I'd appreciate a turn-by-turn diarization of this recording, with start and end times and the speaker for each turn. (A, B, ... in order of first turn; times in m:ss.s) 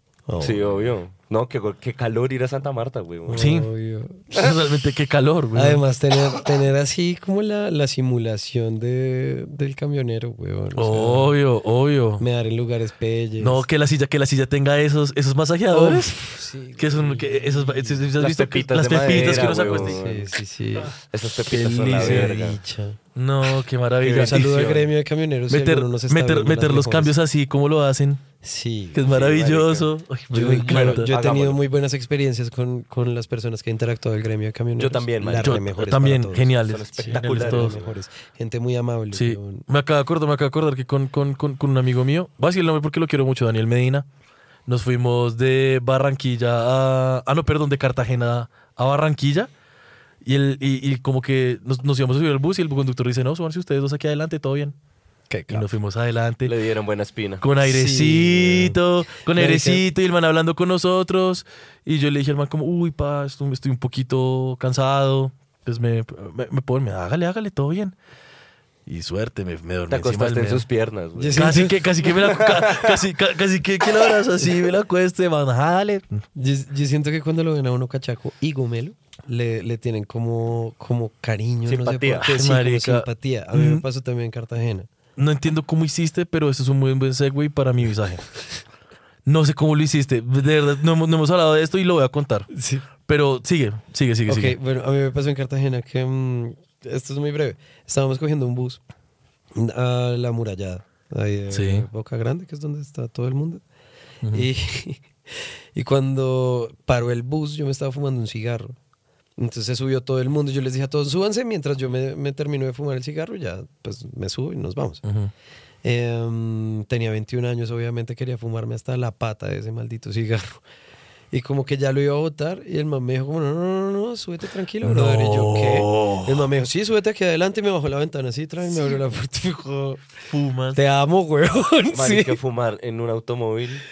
0:00.3-0:00.9 A
0:00.4-0:03.5 B
0:03.3-0:04.4 A
0:03.3-0:03.7 C
0:04.3-0:05.8 C
0:05.6-0:11.4 A
0:10.8-0:12.2 C
0:12.2-0:13.6 A
0:13.4-0:16.2 C
0:15.7-0:18.1 A
0:16.8-0:20.0 C
0:18.2-0:20.3 B
0:19.1-0:20.9 A
0:20.9-0:22.6 B
0:21.5-0:22.5 C
0:21.9-0:23.0 A
0:23.2-0:24.9 C
0:24.0-0:24.6 B
0:24.1-0:27.1 A
0:25.5-0:28.2 C
0:28.4-0:29.1 A
0:28.9-0:31.1 C
0:29.1-0:29.9 B
0:30.3-0:39.6 A
0:30.5-0:31.6 B
0:34.8-0:35.6 B
0:35.4-0:37.8 C
0:36.6-0:37.9 B
0:39.1-0:44.1 C
0:44.7-0:49.5 C
0:50.2-0:54.8 C
0:55.3-0:55.7 A
0:55.5-0:56.5 C
0:56.4-0:57.4 B
0:57.4-1:08.0 C
0:57.6-0:59.8 A
1:08.9-1:10.6 C
1:09.9-1:13.0 B
1:11.2-1:11.8 A
1:11.3-1:16.2 C
1:16.3-1:24.9 A
1:21.6-1:22.3 B
1:22.2-1:23.8 C
1:25.2-1:28.3 C
1:29.3-1:32.5 C
1:32.5-1:32.9 A
1:33.0-1:34.6 C
1:34.3-1:38.8 A
1:39.5-1:43.6 A
1:41.5-1:41.9 C
1:44.2-1:44.5 C
1:44.3-1:48.8 A
1:49.4-1:55.0 A
1:55.0-1:55.3 C
1:55.8-2:00.6 A
2:01.3-2:10.1 A
2:04.8-2:06.5 C
2:10.3-2:10.8 C
2:10.7-2:12.4 A
2:11.9-2:13.8 B